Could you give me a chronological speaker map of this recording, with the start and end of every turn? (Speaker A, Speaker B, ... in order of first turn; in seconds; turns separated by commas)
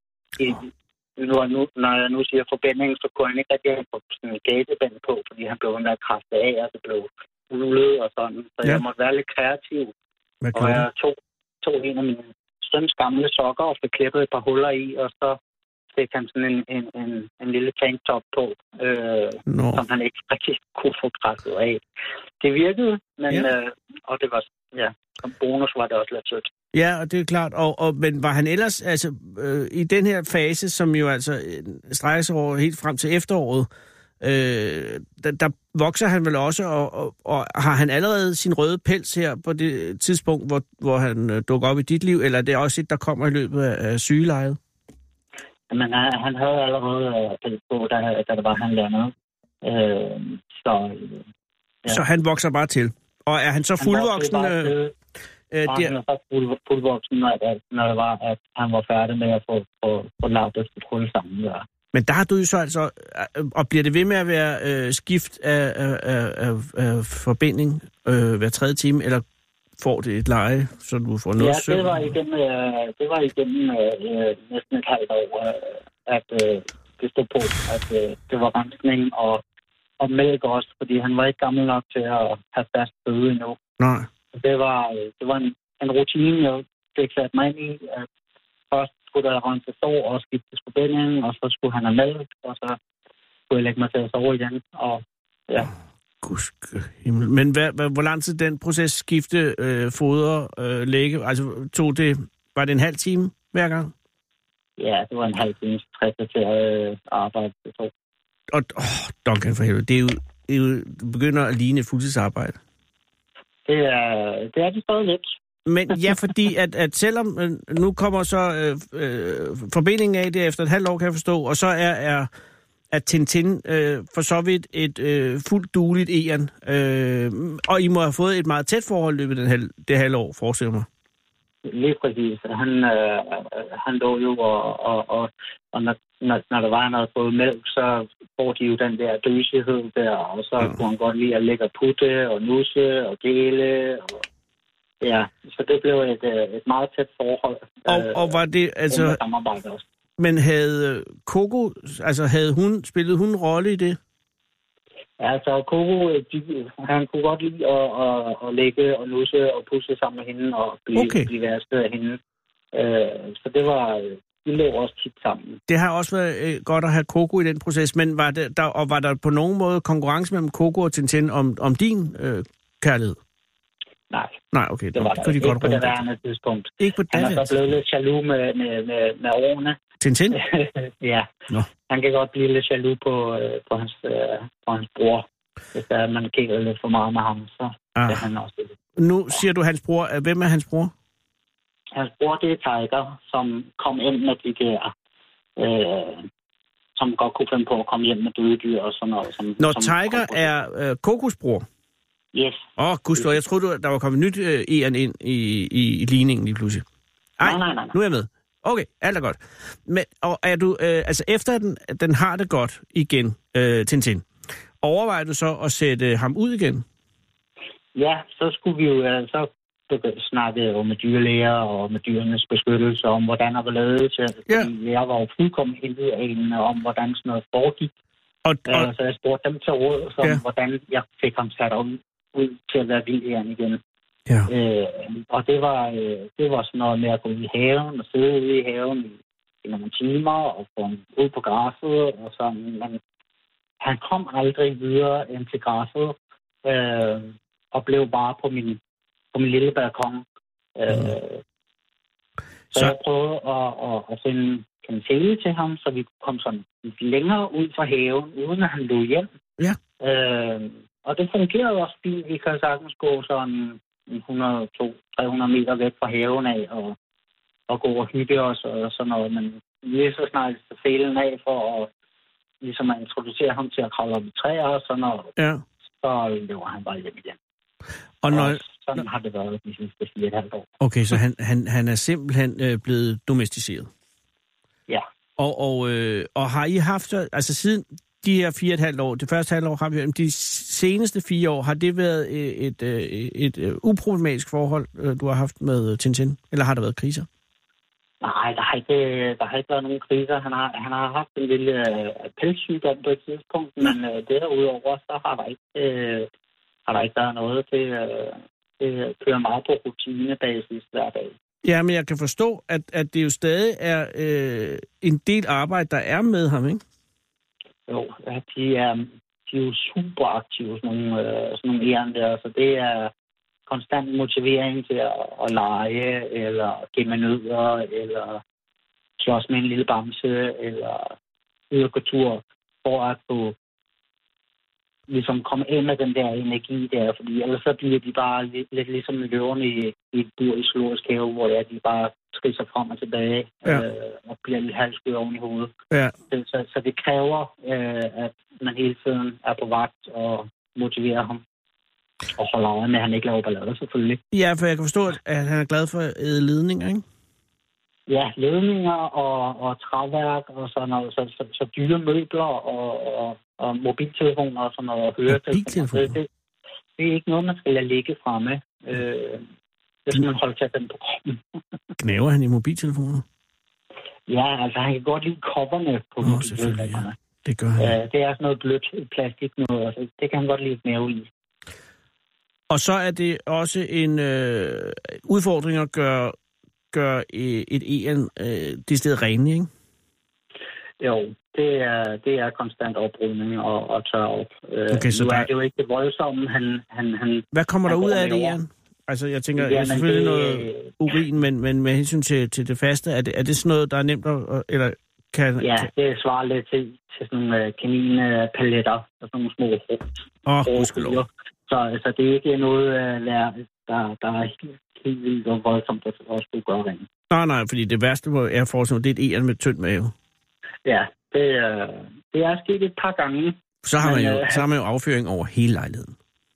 Speaker A: 0.4-9.9, Speaker B: 10.4-10.8, Speaker A: 10.6-15.4, Speaker A: 15.9-21.8, Speaker B: 19.5-19.8, Speaker A: 22.4-26.5, Speaker B: 26.7-33.7, Speaker B: 34.2-44.6, Speaker A: 45.7-51.3, Speaker B: 51.9-54.7, Speaker A: 53.8-54.9, Speaker B: 55.5-55.9, Speaker A: 55.7-61.6, Speaker B: 61.9-69.2, Speaker B: 69.8-72.1, Speaker A: 71.4-79.4, Speaker A: 80.0-83.6, Speaker B: 83.8-84.1, Speaker A: 84.3-88.1, Speaker A: 88.7-92.8, Speaker A: 93.5-95.7, Speaker B: 96.2-103.9, Speaker A: 104.8-107.9, Speaker B: 108.5-112.6, Speaker A: 113.7-115.4, Speaker B: 115.7-122.3, Speaker B: 122.9-130.9, Speaker A: 131.7-144.2, Speaker A: 145.0-149.8, Speaker B: 147.9-149.2, Speaker B: 150.2-154.0, Speaker A: 155.2-162.2, Speaker B: 161.0-161.3, Speaker A: 162.7-165.6, Speaker B: 165.7-173.2, Speaker A: 174.1-174.4, Speaker B: 174.5-176.0, Speaker A: 174.9-179.8, Speaker B: 176.8-177.6, Speaker B: 180.0-180.4, Speaker A: 180.3-181.3, Speaker A: 181.9-188.8, Speaker B: 188.0-188.3, Speaker B: 189.0-190.9, Speaker A: 191.9-194.9, Speaker A: 195.6-196.3, Speaker A: 197.0-200.6, Speaker B: 199.6-201.7, Speaker A: 202.3-202.7, Speaker B: 202.8-206.8, Speaker B: 207.4-214.2, Speaker A: 207.4-207.9, Speaker B: 214.8-216.8, Speaker A: 217.9-227.9, Speaker B: 228.4-228.9, Speaker A: 228.7-233.8, Speaker A: 234.5-243.0, Speaker A: 243.8-248.8, Speaker A: 249.3-250.2, Speaker A: 250.8-251.4, Speaker A: 252.7-259.3, Speaker A: 260.0-267.0, Speaker A: 267.7-271.9, Speaker A: 272.6-275.3, Speaker B: 275.4-275.6, Speaker A: 276.0-277.4, Speaker B: 278.2-278.6, Speaker A: 278.3-280.7, Speaker B: 280.8-283.9, Speaker B: 285.4-297.3, Speaker A: 298.2-306.3, Speaker A: 306.9-311.3, Speaker B: 311.6-316.8, Speaker A: 317.9-323.1, Speaker A: 323.7-328.4, Speaker A: 329.2-331.1, Speaker A: 331.7-333.6, Speaker A: 335.1-345.7, Speaker A: 346.3-351.4, Speaker A: 352.4-354.2, Speaker B: 354.3-357.0, Speaker A: 358.1-366.3, Speaker B: 365.3-366.1, Speaker A: 367.0-369.5, Speaker A: 370.1-371.4, Speaker B: 372.0-373.2, Speaker A: 374.3-377.1, Speaker B: 376.2-377.9, Speaker A: 377.8-381.3, Speaker B: 382.7-386.4, Speaker B: 386.9-389.7, Speaker A: 391.0-398.6, Speaker B: 394.9-395.5, Speaker B: 397.5-405.9, Speaker A: 399.6-401.0, Speaker A: 405.6-417.1, Speaker B: 410.5-411.2, Speaker B: 417.3-420.1, Speaker A: 420.9-424.6, Speaker B: 423.8-426.1